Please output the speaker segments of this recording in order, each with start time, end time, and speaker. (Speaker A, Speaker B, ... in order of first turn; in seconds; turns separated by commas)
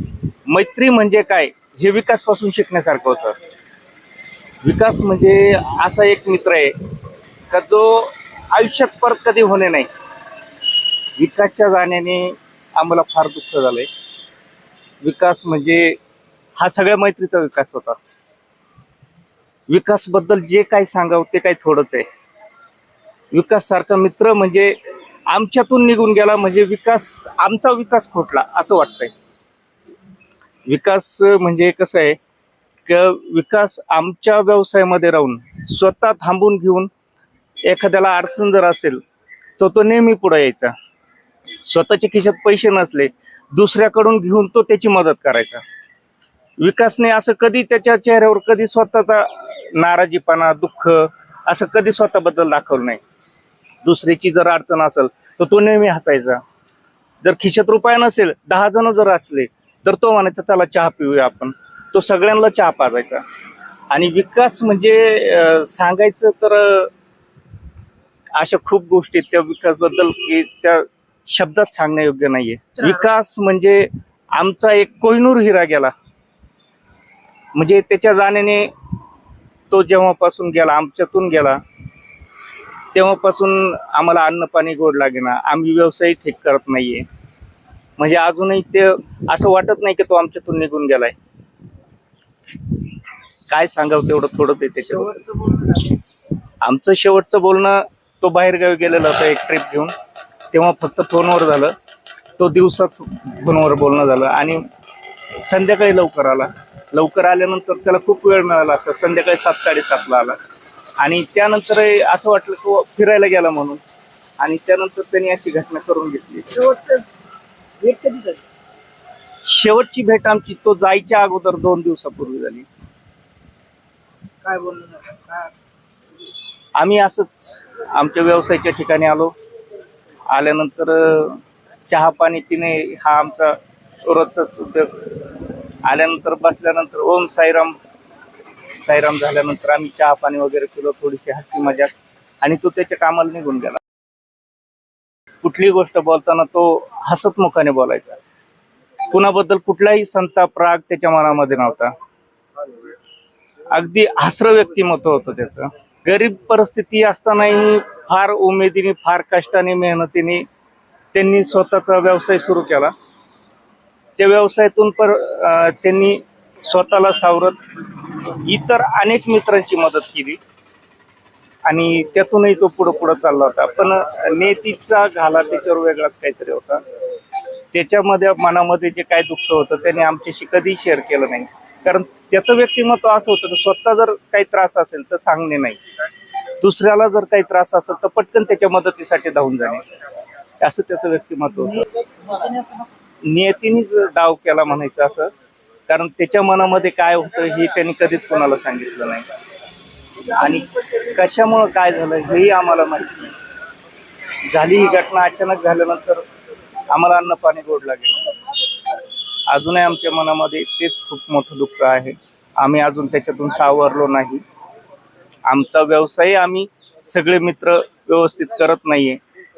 Speaker A: 0.5-3.4, Speaker A: 4.6-6.7, Speaker A: 7.5-9.9, Speaker A: 11.2-13.9, Speaker A: 15.0-16.0, Speaker A: 16.6-18.0, Speaker A: 19.7-22.1, Speaker A: 23.3-24.8, Speaker A: 25.3-29.1, Speaker A: 30.7-32.2, Speaker A: 32.9-36.9, Speaker A: 37.6-39.0, Speaker A: 39.6-40.7, Speaker A: 41.6-45.6, Speaker A: 46.6-53.0, Speaker A: 53.8-56.4, Speaker A: 57.2-63.2, Speaker A: 63.9-66.9, Speaker A: 68.3-75.9, Speaker A: 77.5-78.7, Speaker A: 79.7-81.6, Speaker A: 82.9-87.0, Speaker A: 88.0-91.1, Speaker A: 93.5-95.2, Speaker B: 95.1-95.9, Speaker A: 96.6-99.9, Speaker A: 100.5-101.7, Speaker A: 102.4-104.6, Speaker A: 105.4-110.4, Speaker A: 111.0-113.8, Speaker A: 114.4-116.6, Speaker B: 116.5-117.0, Speaker B: 117.8-118.4, Speaker A: 119.4-122.7, Speaker B: 124.4-125.5, Speaker A: 126.8-129.3, Speaker A: 130.3-137.8, Speaker A: 138.8-141.9, Speaker A: 142.4-143.8, Speaker A: 145.4-148.2, Speaker A: 149.1-151.9, Speaker A: 153.7-160.4, Speaker A: 161.1-162.9, Speaker A: 164.2-167.6, Speaker A: 168.2-170.4, Speaker A: 171.7-176.8, Speaker A: 177.7-185.8, Speaker A: 186.6-189.8, Speaker A: 190.6-191.8, Speaker B: 192.2-192.8, Speaker A: 193.2-195.3, Speaker A: 195.9-199.2, Speaker A: 200.3-203.3, Speaker A: 204.5-206.2, Speaker A: 206.9-208.3, Speaker A: 209.5-214.4, Speaker A: 215.4-219.2